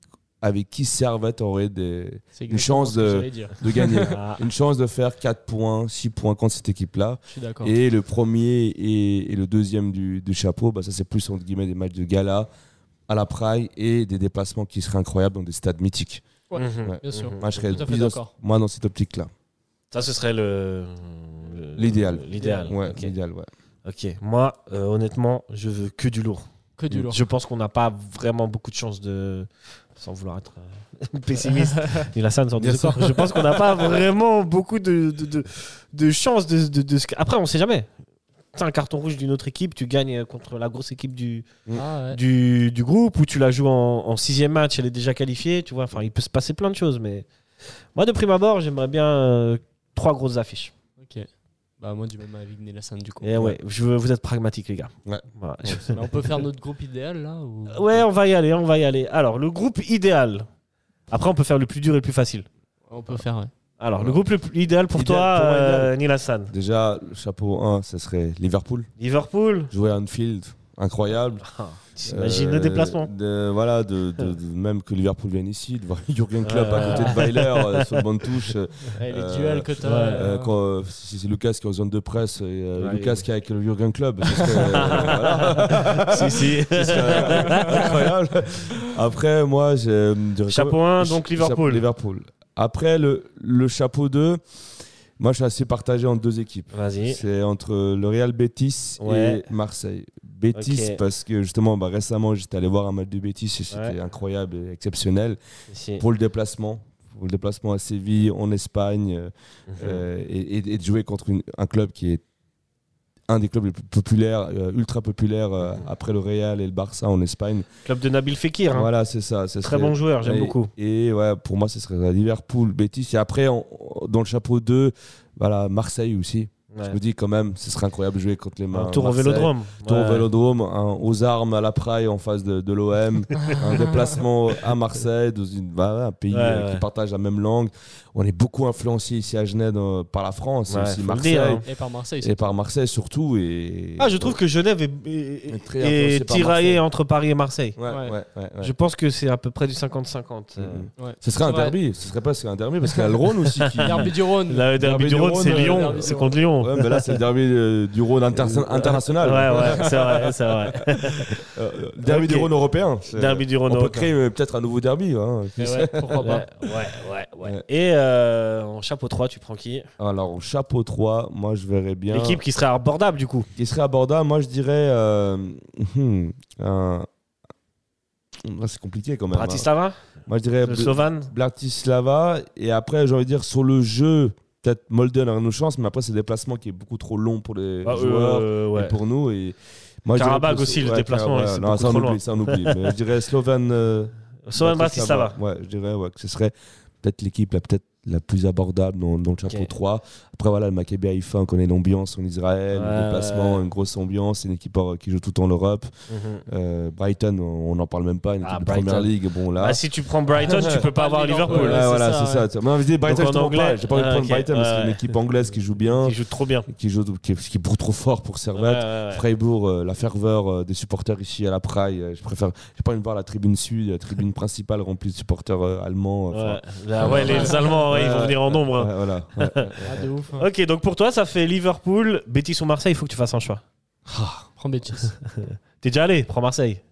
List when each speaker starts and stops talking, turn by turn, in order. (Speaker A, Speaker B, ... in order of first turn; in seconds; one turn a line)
Speaker A: 0.4-12.5
Speaker B: 2.4-4.1
Speaker C: 4.1-4.4
Speaker B: 7.3-7.7
Speaker A: 13.1-16.2
Speaker B: 16.5-18.3
Speaker C: 16.6-17.5
Speaker A: 16.9-19.3
Speaker C: 19.9-23.1
Speaker A: 21.8-23.5
Speaker B: 22.4-22.7
Speaker C: 23.9-37.9
Speaker B: 26.8-27.2
Speaker B: 31.8-32.1
Speaker A: 32.6-34.0
Speaker C: 38.5-41.5
Speaker B: 41.8-42.2
Speaker C: 42.1-47.3
Speaker C: 48.0-50.7
Speaker B: 51.0-51.3
Speaker B: 51.8-53.4
Speaker C: 53.2-56.0
Speaker A: 55.1-55.9
Speaker B: 55.9-58.1
Speaker C: 57.7-60.5
Speaker C: 61.1-62.5
Speaker B: 62.9-63.5
Speaker C: 63.8-66.5
Speaker A: 64.0-64.2
Speaker A: 64.9-65.9
Speaker A: 66.5-68.9
Speaker C: 69.0-69.7
Speaker A: 69.7-71.4
Speaker C: 71.4-73.1
Speaker A: 72.0-94.4
Speaker C: 76.4-78.0
Speaker B: 76.8-77.2
Speaker B: 78.9-80.5
Speaker C: 79.8-80.2
Speaker C: 82.8-83.2
Speaker B: 84.3-85.1
Speaker C: 84.6-87.9
Speaker B: 86.8-88.0
Speaker C: 90.5-91.8
Speaker A: 95.2-105.4
Speaker C: 96.7-97.2
Speaker C: 99.0-99.4
Speaker C: 100.5-101.0
Speaker C: 103.7-104.0
Speaker C: 105.7-106.0
Speaker A: 106.0-112.2
Speaker C: 109.7-110.0
Speaker A: 113.3-117.7
Speaker C: 117.8-118.9
Speaker A: 118.7-141.6
Speaker C: 119.6-120.7
Speaker C: 126.7-127.0
Speaker C: 128.7-130.3
Speaker C: 136.3-136.8
Speaker C: 140.7-141.7
Speaker B: 141.6-142.4
Speaker A: 142.2-144.4
Speaker C: 144.0-147.8
Speaker A: 145.5-146.8
Speaker A: 147.8-148.7
Speaker B: 147.9-148.1
Speaker C: 148.6-150.9
Speaker A: 150.6-154.2
Speaker B: 151.0-151.8
Speaker C: 153.6-157.2
Speaker B: 153.8-156.4
Speaker A: 154.8-160.4
Speaker C: 158.3-161.4
Speaker A: 161.3-166.8
Speaker C: 162.0-162.5
Speaker C: 163.1-164.1
Speaker B: 165.6-166.5
Speaker C: 166.2-169.9
Speaker A: 170.0-172.4
Speaker C: 172.1-173.5
Speaker A: 173.6-177.1
Speaker A: 178.4-179.7
Speaker C: 179.3-180.0
Speaker A: 180.3-205.9
Speaker C: 180.6-181.3
Speaker C: 187.8-188.9
Speaker C: 190.2-192.9
Speaker C: 194.5-195.4
Speaker C: 199.4-199.7
Speaker C: 202.7-203.7
Speaker C: 206.1-206.4
Speaker A: 206.5-209.8
Speaker C: 208.4-211.8
Speaker B: 210.3-212.5
Speaker A: 210.4-210.8
Speaker A: 211.5-230.1
Speaker C: 213.0-215.2
Speaker C: 216.0-216.7
Speaker C: 218.5-219.2
Speaker C: 226.3-229.7
Speaker B: 227.1-227.6
Speaker B: 229.8-230.5
Speaker C: 230.4-233.6
Speaker A: 234.1-234.5
Speaker B: 234.6-235.2
Speaker C: 235.3-236.8